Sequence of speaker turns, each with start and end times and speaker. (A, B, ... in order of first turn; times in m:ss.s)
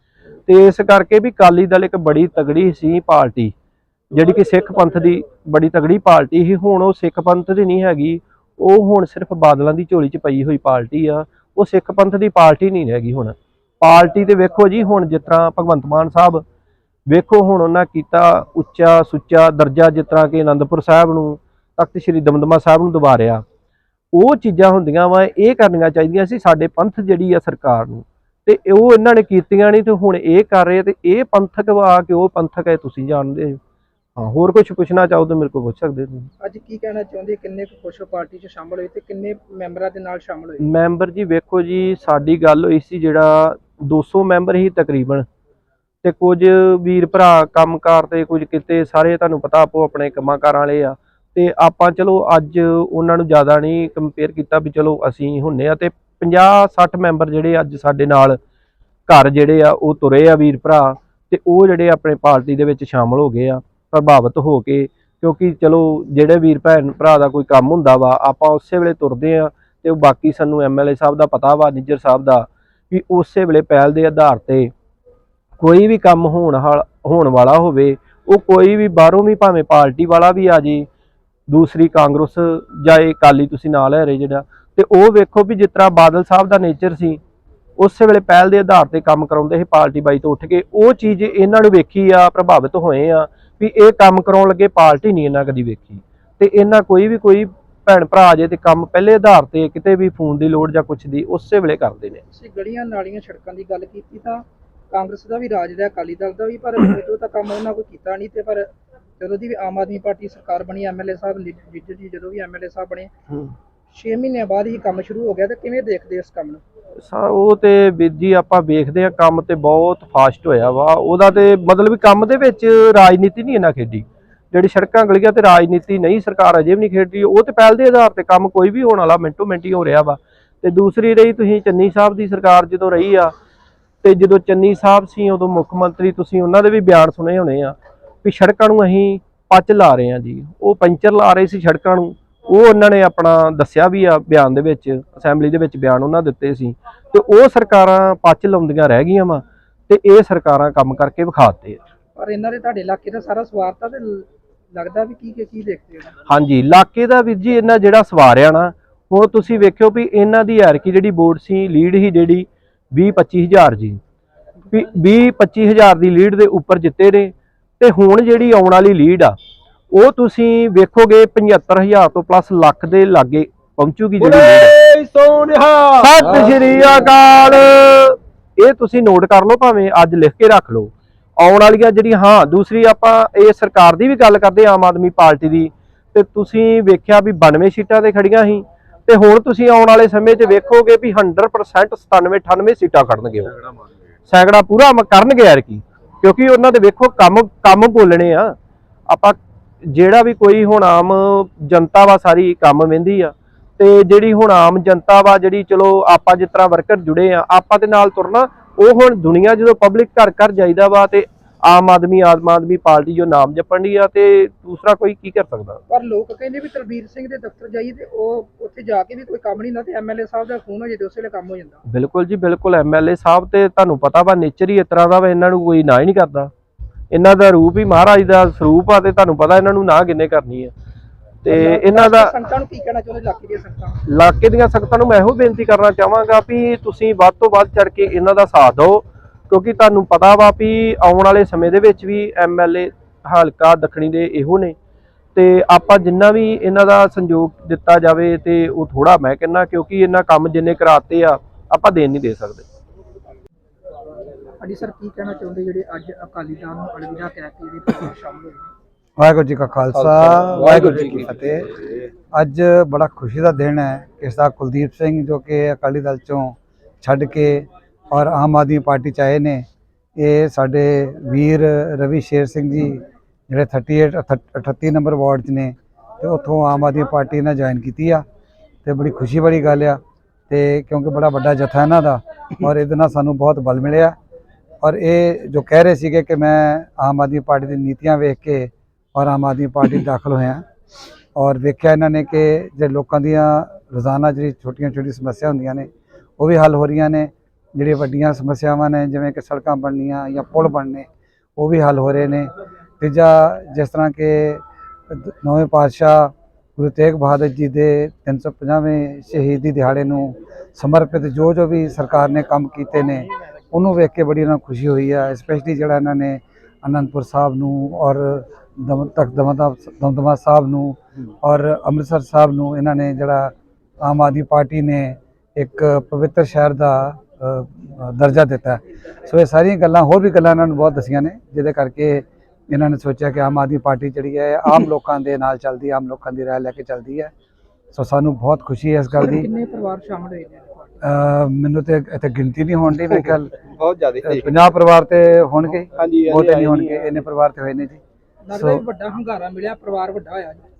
0:00.5-0:03.5 A
0:04.1-0:16.4 A
0:17.1-0:23.4 A
0:24.1-0:33.6 A
0:34.2-0:36.3 A
0:36.4-0:40.6 B
0:40.6-0:45.2 A
0:46.0-0:58.4 A
0:59.1-1:14.7 A
1:15.6-1:20.9 A
1:21.5-1:27.2 A
1:27.8-1:42.2 A
1:42.3-1:48.7 B
1:49.2-1:53.1 B
1:53.9-1:56.6 B
1:57.0-2:13.3 A
2:14.0-2:31.8 A
2:32.2-2:36.2 B
2:36.3-2:44.0 A
2:44.7-2:49.4 A
2:49.9-2:54.7 A
2:54.2-2:56.9 C
2:56.0-3:13.6 A
3:14.3-3:18.6 A
3:19.1-3:35.8 A
3:35.9-3:41.8 B
3:41.9-3:46.5 A
3:47.1-3:50.7 A
3:51.4-3:52.3 A
3:51.4-3:54.0 B
3:54.1-4:04.8 A
4:05.3-4:12.7 A
4:14.6-4:18.7 B
4:19.2-4:21.7 D
4:20.6-4:20.9 A
4:22.3-4:38.2 D
4:38.8-4:44.1 D
4:44.8-4:50.6 D
4:51.4-5:37.3 D
5:37.9-5:39.5 D
5:39.2-5:41.0 B
5:41.0-5:43.5 D
5:43.6-5:44.5 A
5:44.2-5:48.0 D
5:46.0-5:47.0 A
5:48.4-5:50.6 B
5:48.5-5:48.8 D